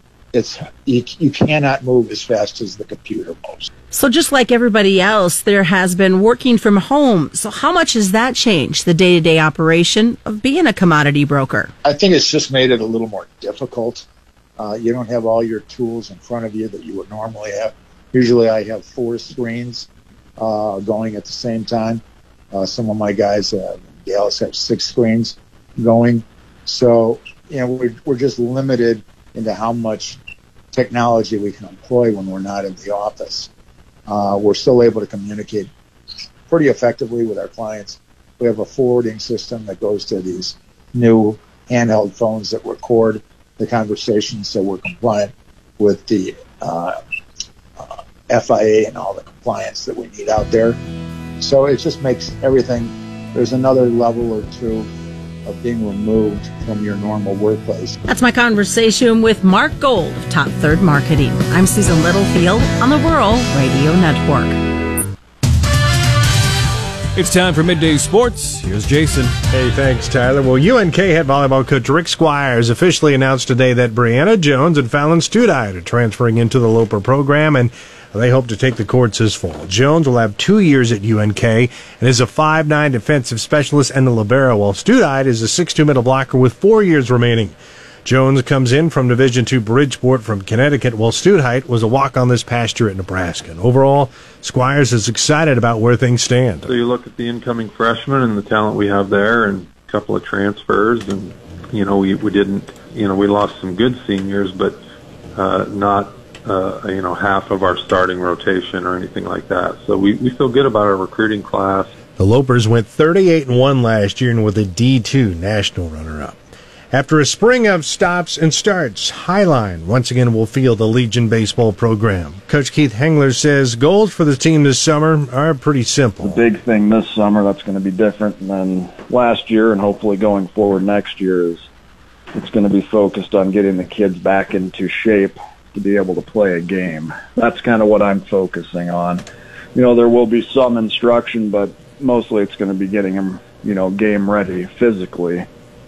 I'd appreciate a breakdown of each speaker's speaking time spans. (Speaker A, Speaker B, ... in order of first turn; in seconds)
Speaker A: 0.3-3.7, 11.8-14.1, 14.6-19.9, 20.4-22.0, 22.5-30.2, 30.7-33.5, 34.1-35.7, 36.5-47.0, 47.8-50.8, 51.4-54.9, 55.5-58.0
Speaker B: 3.9-11.7, 58.1-64.6
Speaker C: 67.2-69.3
Speaker D: 69.5-96.7, 112.2-116.4, 116.9-126.4
Speaker E: 96.7-104.8, 105.4-111.9
Speaker F: 126.2-131.6, 132.3-139.2, 139.8-145.5